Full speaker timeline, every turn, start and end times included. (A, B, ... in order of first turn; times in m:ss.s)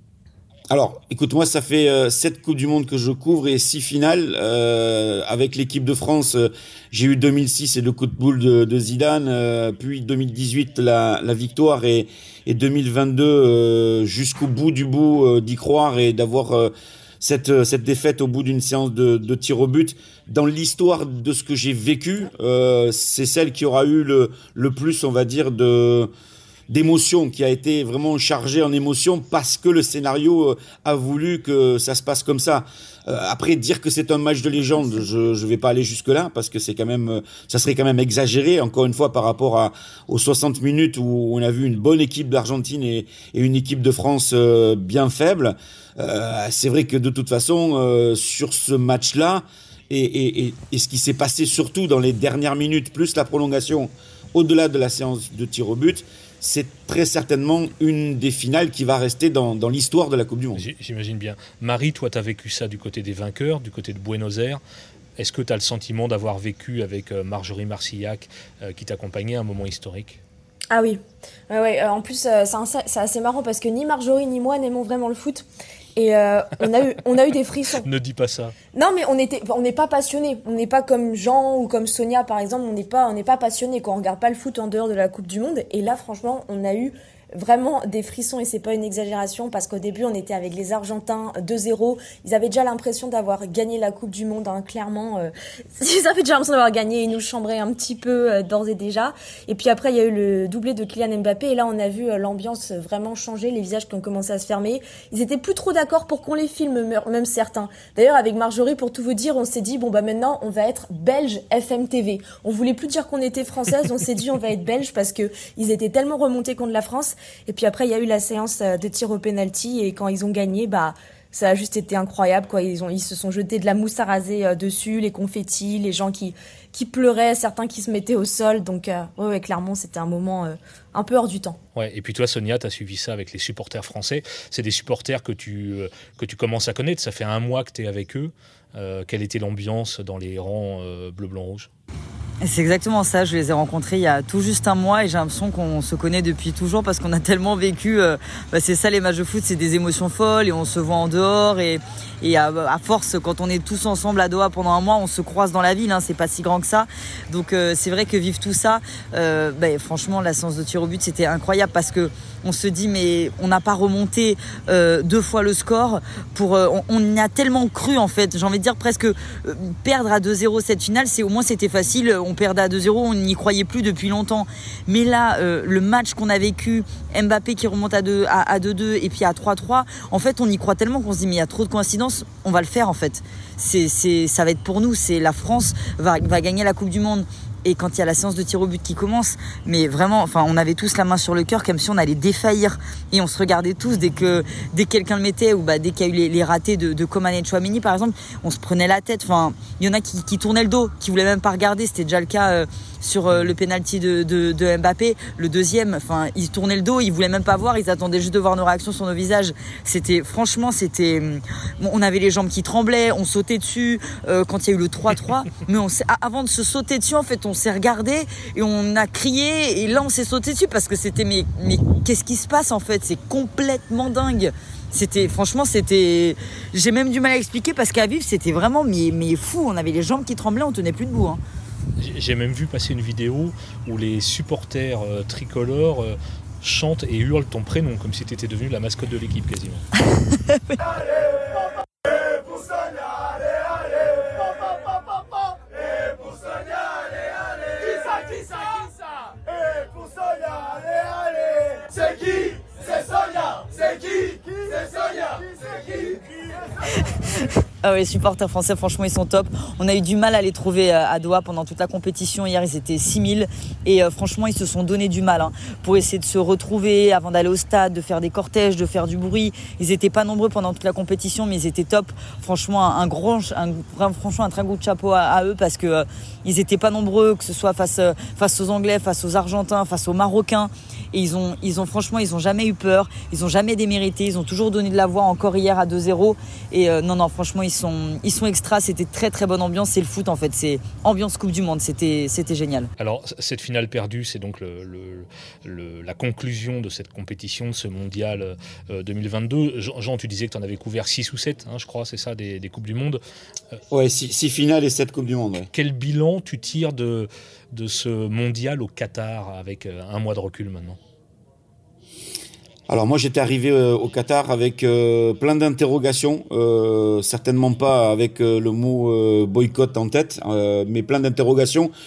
0:00.7-0:26.1 A
0:26.7-1:00.7 A
1:00.6-1:04.6 B
1:05.2-1:10.2 B
1:10.7-1:15.4 C
1:16.0-1:17.8 C
1:17.8-1:18.6 B
1:18.7-2:11.6 C
2:11.8-2:21.7 B
2:22.4-3:51.4 D
3:23.3-3:23.6 B
3:52.0-3:59.9 B
4:00.3-4:00.8 D
4:17.8-4:52.9 D
4:53.0-5:03.2 B
5:03.9-5:05.7 A
5:05.7-5:11.0 B
5:12.9-5:21.9 A